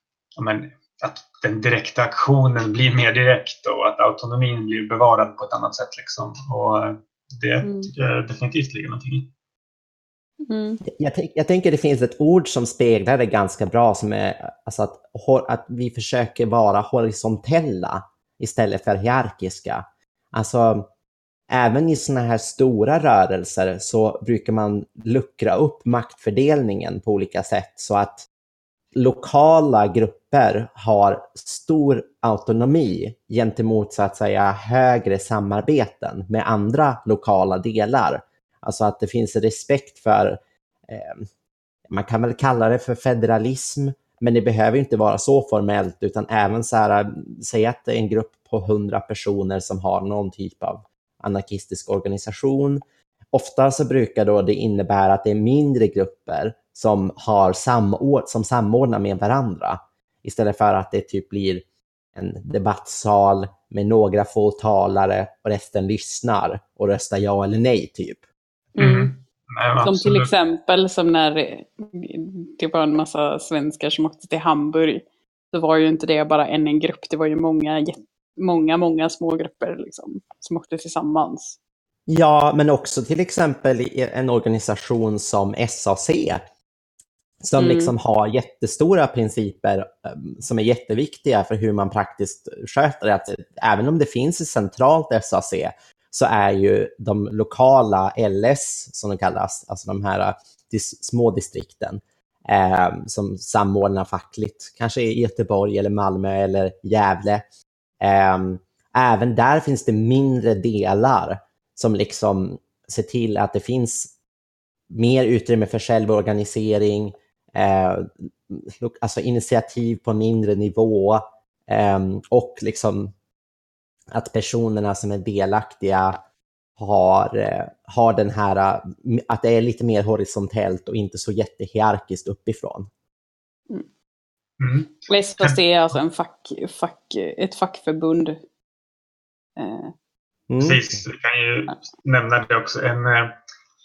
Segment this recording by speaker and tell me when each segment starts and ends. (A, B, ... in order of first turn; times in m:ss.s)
0:00.4-0:09.3 A
0:07.6-0:07.9 B
0:10.4-0:10.8 B
0:10.8-0:20.9 C
0:21.5-0:28.3 C
0:28.9-0:41.3 C
0:41.9-0:52.8 C
0:53.3-1:01.6 C
1:02.2-1:08.2 C
1:08.8-1:09.1 B
1:08.8-1:10.3 A
1:09.8-1:21.6 B
1:22.1-1:26.4 C
1:27.4-1:47.4 C
1:27.6-1:27.9 B
1:48.0-1:54.1 C
1:54.9-2:03.1 C
2:04.1-2:06.2 C
2:06.8-2:12.9 C
2:14.6-2:15.6 A
2:15.1-2:18.4 B
2:19.6-2:19.9 B
2:20.5-2:21.0 C
2:20.6-2:23.3 A